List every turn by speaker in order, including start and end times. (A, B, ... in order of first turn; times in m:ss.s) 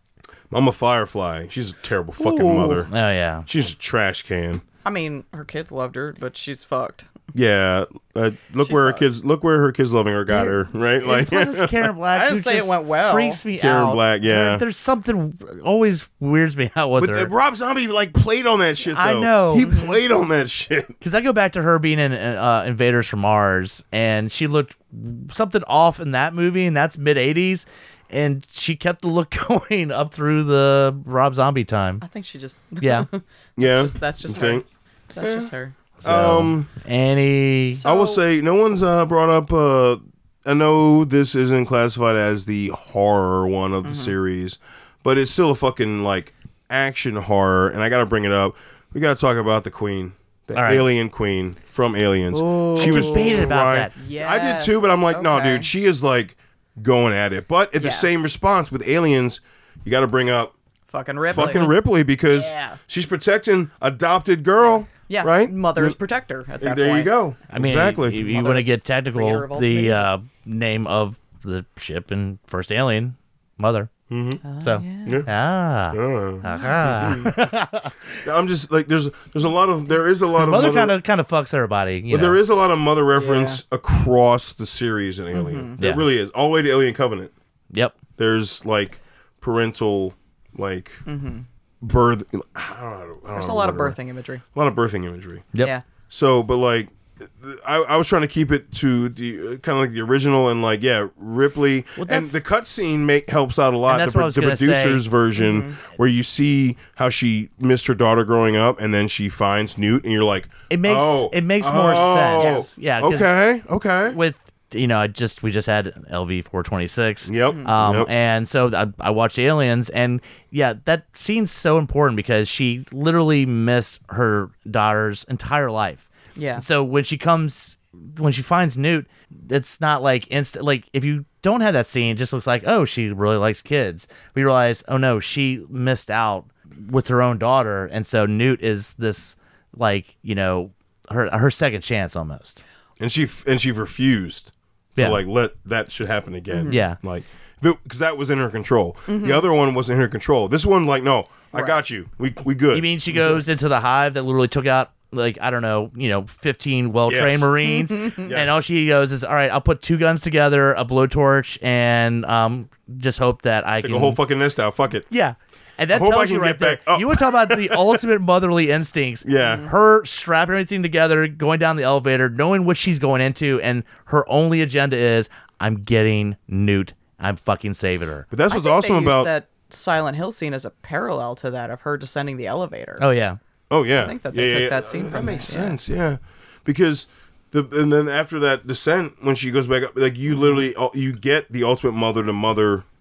0:00.5-0:02.9 A
0:02.2-0:02.8 B
0:02.9-0:03.4 C
0:03.4-0:04.6 A
0:04.8-0:07.1 B
0:07.3-0:11.9 A
0:08.6-0:09.0 B
0:10.4-0:17.3 C
0:12.1-0:13.4 B
0:13.5-0:14.6 A
0:17.0-0:21.0 A
0:18.9-0:19.7 C
0:19.6-0:20.0 B
0:21.0-0:32.0 C
0:32.0-0:35.7 B
0:32.8-0:33.1 C
0:33.6-0:34.6 A
0:35.2-0:35.5 A
0:36.0-0:37.8 C
0:36.0-0:36.7 A
0:37.7-0:38.2 B
0:37.8-1:00.5 A
0:43.8-0:44.1 B
0:50.5-0:50.9 C
0:52.3-0:55.7 B
0:52.8-0:53.9 C
0:57.8-0:58.1 B
1:00.9-1:01.7 B
1:01.2-1:06.0 A
1:01.3-1:01.7 C
1:02.3-1:02.8 B
1:05.1-1:07.1 B
1:06.6-1:08.5 A
1:07.5-1:13.9 C
1:08.2-1:10.1 B
1:14.1-1:14.4 A
1:14.4-1:15.2 B
1:14.6-1:18.2 C
1:15.0-1:15.3 A
1:15.9-1:17.4 A
1:18.2-1:21.0 A
1:20.3-1:22.4 C
1:22.1-1:27.3 A
1:23.1-1:23.6 B
1:25.3-1:25.8 B
1:25.8-1:26.0 C
1:27.7-1:28.0 C
1:28.2-1:31.0 A
1:31.0-1:31.4 B
1:31.8-1:34.0 A
1:33.3-1:34.4 B
1:34.5-1:35.5 A
1:35.6-1:35.8 B
1:36.1-1:54.2 A
1:42.0-1:42.4 C
1:43.9-1:45.0 C
1:45.4-1:45.8 B
1:50.7-1:53.4 C
1:52.0-1:52.7 B
1:54.1-2:22.6 C
1:57.2-1:58.1 A
2:06.4-2:06.6 B
2:23.0-2:33.4 A
2:25.0-2:25.2 C
2:26.5-2:26.8 B
2:26.7-2:27.0 C
2:29.1-2:29.4 B
2:31.5-2:31.8 B
2:32.7-2:44.2 C
2:37.1-2:37.6 A
2:37.6-2:38.3 B
2:38.2-2:38.6 A
2:43.8-2:45.1 A
2:45.1-2:58.3 C
2:45.9-2:48.0 A
2:49.2-2:49.6 A
2:49.4-2:49.7 B
2:58.3-2:59.3 A
2:58.5-3:03.0 B
3:03.0-3:03.4 C
3:03.7-3:12.8 A
3:04.0-3:05.8 B
3:10.3-3:10.6 B